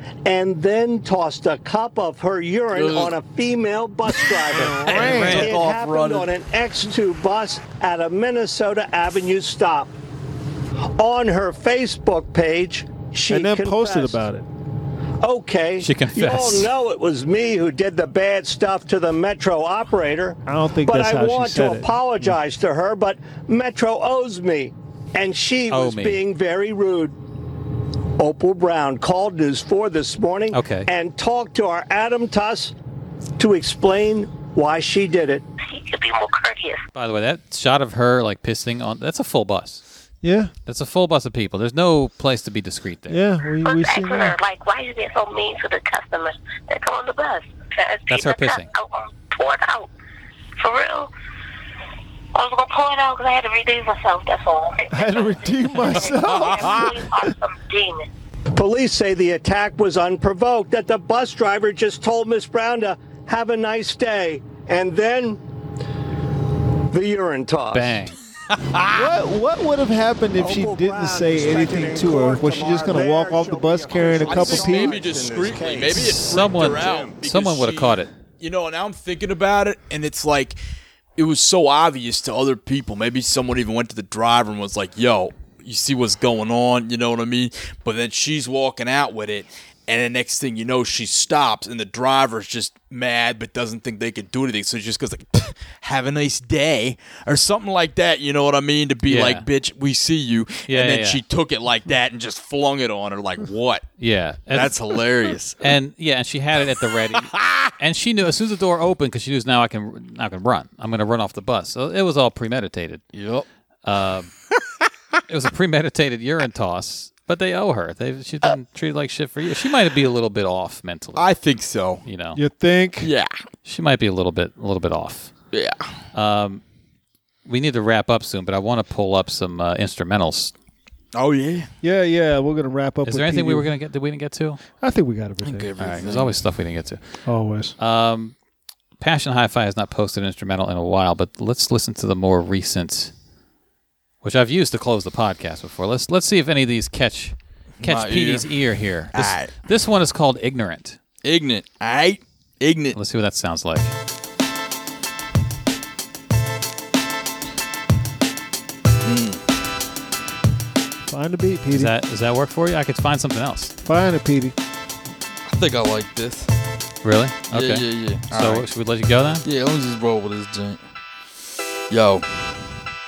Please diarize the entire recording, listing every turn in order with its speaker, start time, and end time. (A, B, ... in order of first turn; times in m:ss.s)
0:00.2-0:09.9 A
0:02.7-0:03.2 B
0:04.3-0:06.3 B
0:04.5-0:05.5 C
0:04.9-0:05.5 D
0:11.0-0:14.2 A
0:13.3-0:14.5 C
0:15.2-0:27.2 A
0:15.8-0:16.7 D
0:20.5-0:21.9 C
0:25.7-0:26.2 D
0:28.2-0:32.8 A
0:30.5-0:30.9 D
0:33.4-0:35.4 A
0:35.6-0:36.8 E
0:36.9-0:39.8 D
0:40.2-0:40.5 C
0:40.7-0:43.2 D
0:43.1-0:44.4 C
0:43.6-0:49.9 E
0:48.1-0:48.7 D
0:50.6-0:51.1 E
0:52.3-0:58.1 E
0:54.9-0:57.0 C
0:58.6-1:05.4 A
1:06.9-1:08.0 A
1:07.7-1:08.2 D
1:08.5-1:09.1 B
1:09.0-1:15.0 C
1:10.4-1:17.2 A
1:14.2-1:20.6 B
1:15.9-1:18.1 D
1:21.2-1:43.9 B
1:39.1-1:39.5 D
1:40.7-1:41.2 D
1:44.0-1:44.8 D
1:44.5-1:45.6 B
1:45.6-1:53.0 D
1:47.2-1:47.7 B
1:53.1-1:53.5 B
1:53.8-1:54.3 D
1:55.3-2:01.2 D
2:01.2-2:02.0 B
2:02.0-2:02.4 D
2:02.4-2:03.1 C
2:03.0-2:03.3 B
2:03.6-2:05.3 D
2:05.5-2:05.9 B
2:06.1-2:06.6 D
2:07.5-2:10.5 D
2:11.1-2:11.7 B
2:11.8-2:13.7 C
2:13.0-2:14.6 D
2:14.8-2:15.7 C
2:15.4-2:16.4 B
2:15.8-2:17.0 D
2:17.3-2:17.8 C
2:17.8-2:18.4 D
2:19.0-2:23.1 D
2:24.2-2:31.0 D
2:27.8-2:28.5 B
2:29.1-2:29.5 B
2:31.2-2:33.0 B
2:32.9-2:33.9 D
2:39.0-2:39.4 B
2:41.1-2:41.9 C
2:41.7-2:43.7 D
2:43.8-2:44.6 C
2:45.5-2:46.5 B
2:47.0-2:49.4 D
2:47.5-2:48.7 B
2:49.4-2:50.8 B
2:51.9-2:52.8 B